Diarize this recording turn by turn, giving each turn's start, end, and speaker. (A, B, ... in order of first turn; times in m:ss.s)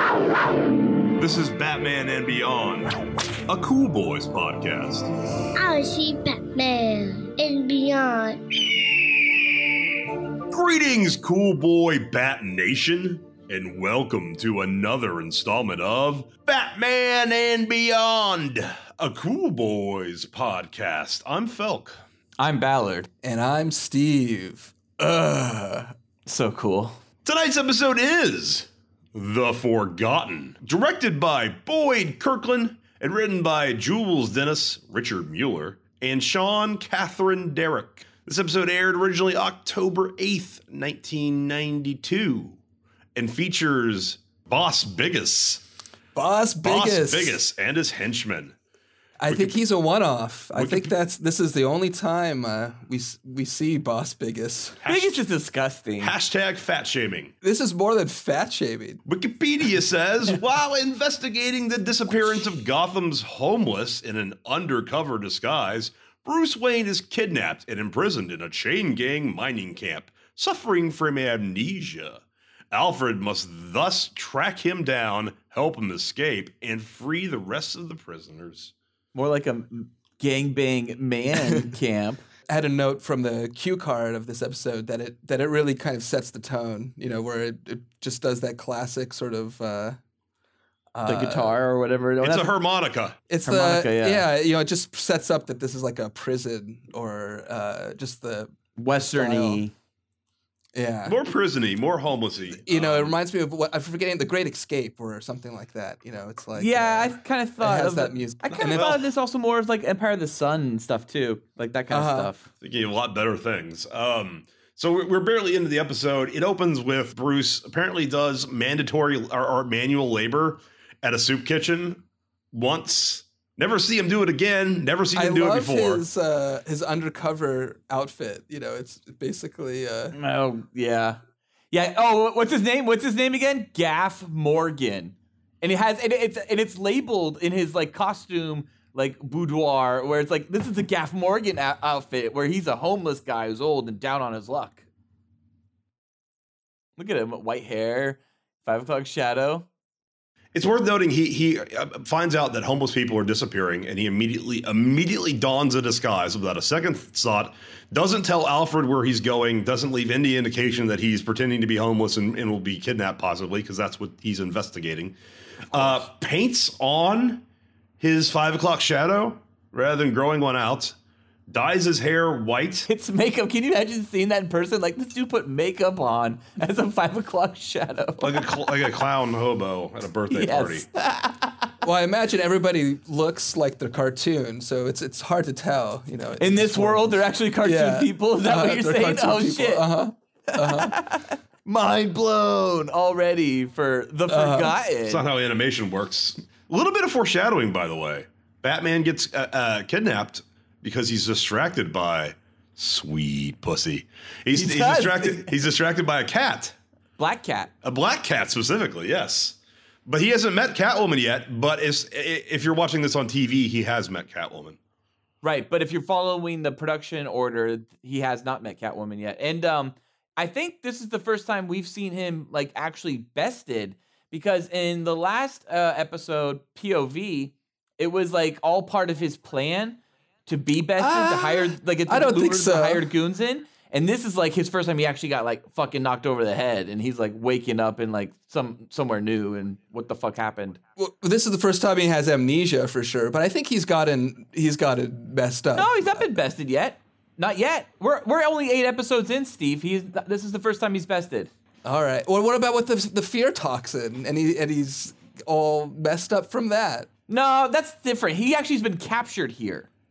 0:01.2-0:02.9 A
0:03.5-0:05.1 A
0:05.6-0:08.4 B
0:10.5-0:22.0 A
0:22.4-0:23.1 C
0:23.2-0:24.7 D
0:25.0-0:27.0 C
0:27.2-0:42.6 A
0:43.2-0:45.6 A
0:46.1-0:47.4 D
0:46.6-0:48.6 A
0:49.2-0:54.8 D
0:49.3-0:49.6 A
0:50.5-0:50.9 A
0:54.8-0:55.2 A
0:54.8-0:56.1 C
0:56.0-0:57.3 A
0:57.4-0:59.0 D
0:59.0-1:18.7 A
1:19.1-1:22.2 C
1:21.4-1:21.7 D
1:22.5-1:30.0 D
1:30.9-1:31.6 D
1:31.0-1:32.6 C
1:32.2-1:33.2 A
1:33.3-1:38.5 D
1:33.4-1:34.3 C
1:38.8-1:39.7 C
1:39.1-1:39.6 D
1:40.7-1:41.2 D
1:41.0-1:43.2 A
1:42.6-1:48.9 D
1:46.5-1:52.5 C
1:48.4-1:49.0 A
1:51.9-1:52.3 D
1:52.6-2:02.0 A
2:02.5-2:06.0 A
2:05.1-2:10.1 D
2:10.1-2:11.2 C
2:11.7-2:24.8 C
2:27.0-2:29.6 C
2:30.5-2:45.1 A
2:45.7-2:47.4 A
2:48.0-2:51.0 A
2:51.5-2:52.9 A
2:52.9-2:58.5 C
2:58.2-3:00.9 A
3:00.3-3:01.8 C
3:01.8-3:11.0 D
3:06.4-3:15.2 C
3:14.3-3:14.8 D
3:15.1-3:26.7 A
3:24.5-3:25.5 C
3:27.2-3:27.7 C
3:27.8-3:34.8 A
3:35.4-4:00.8 C
3:51.0-3:53.1 D
4:01.0-4:06.4 D
4:05.7-4:11.5 C
4:11.8-4:17.1 D
4:17.3-4:19.9 C